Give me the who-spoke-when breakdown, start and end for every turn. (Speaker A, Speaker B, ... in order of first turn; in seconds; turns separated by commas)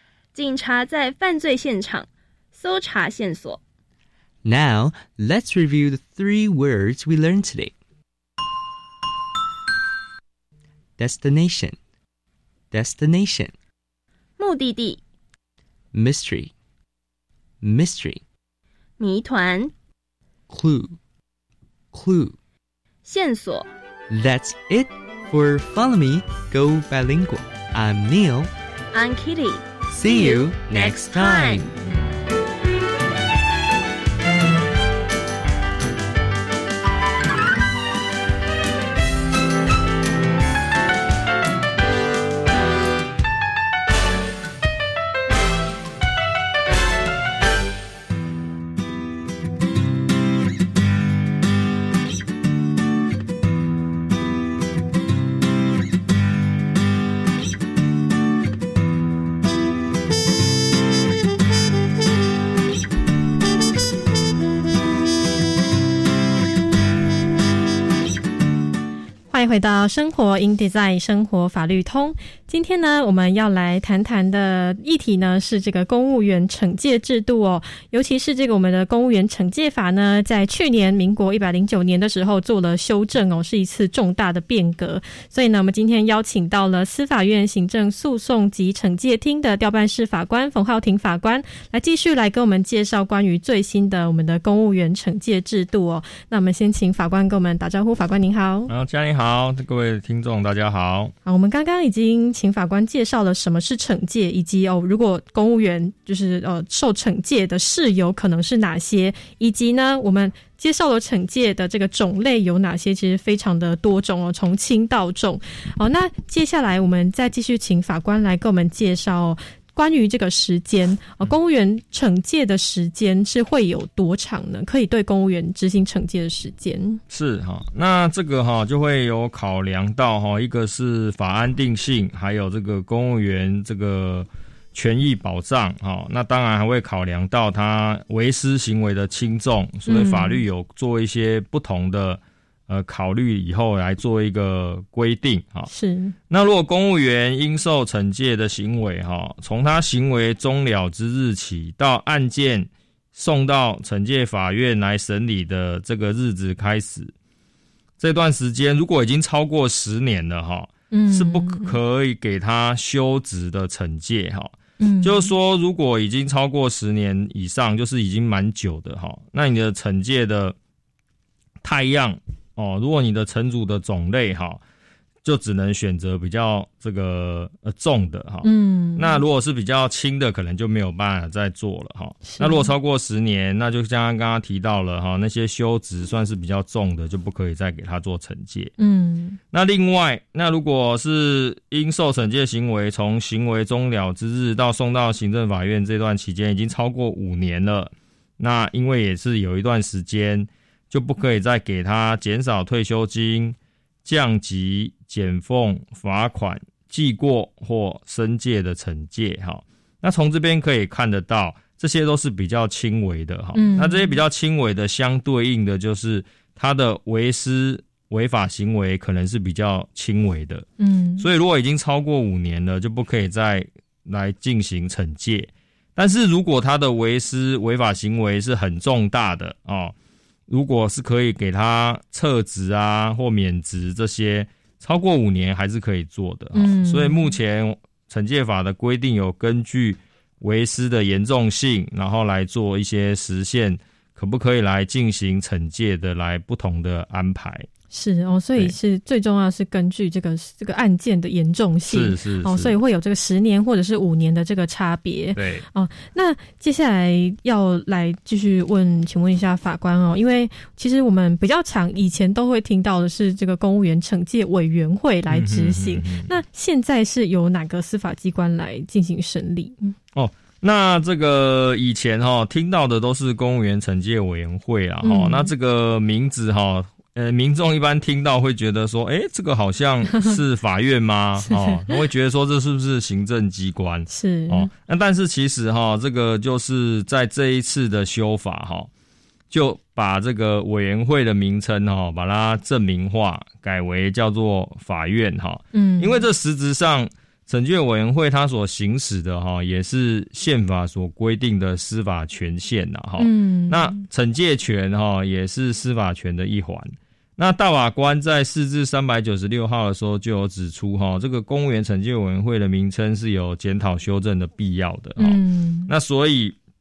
Speaker A: 0.3-3.6, Speaker B: 4.4-7.7, Speaker B: 11.0-11.8, Speaker B: 12.7-13.5, Speaker A: 14.4-15.0, Speaker B: 15.9-16.5, Speaker B: 17.6-18.2, Speaker A: 19.0-19.7, Speaker B: 20.5-21.0, Speaker B: 21.9-22.4, Speaker A: 23.0-23.7, Speaker B: 24.1-28.5, Speaker A: 28.9-31.7, Speaker B: 29.9-31.7, Speaker C: 69.3-98.7, Speaker D: 98.7-101.1, Speaker C: 101.2-127.0, Speaker D: 127.1-145.7, Speaker C: 139.8-140.4, Speaker C: 145.7-146.1, Speaker D: 146.3-157.1, Speaker D: 158.0-170.5, Speaker C: 160.9-161.8, Speaker C: 164.8-165.3, Speaker D: 171.6-174.6, Speaker D: 175.2-188.7, Speaker C: 178.4-179.2, Speaker C: 182.2-182.7, Speaker C: 188.8-189.4, Speaker D: 189.5-220.7, Speaker C: 213.5-214.2, Speaker C: 220.8-221.3, Speaker D: 221.2-229.9, Speaker D: 230.5-247.7, Speaker C: 236.5-237.3, Speaker C: 247.9-269.9, Speaker D: 251.9-252.8, Speaker D: 255.3-255.6, Speaker D: 265.3-266.3, Speaker D: 270.1-288.9, Speaker C: 275.0-275.5, Speaker C: 280.1-280.4, Speaker C: 281.4-282.0, Speaker C: 284.1-284.7, Speaker D: 289.5-316.6, Speaker C: 295.7-296.2, Speaker C: 303.2-304.0, Speaker C: 315.2-315.9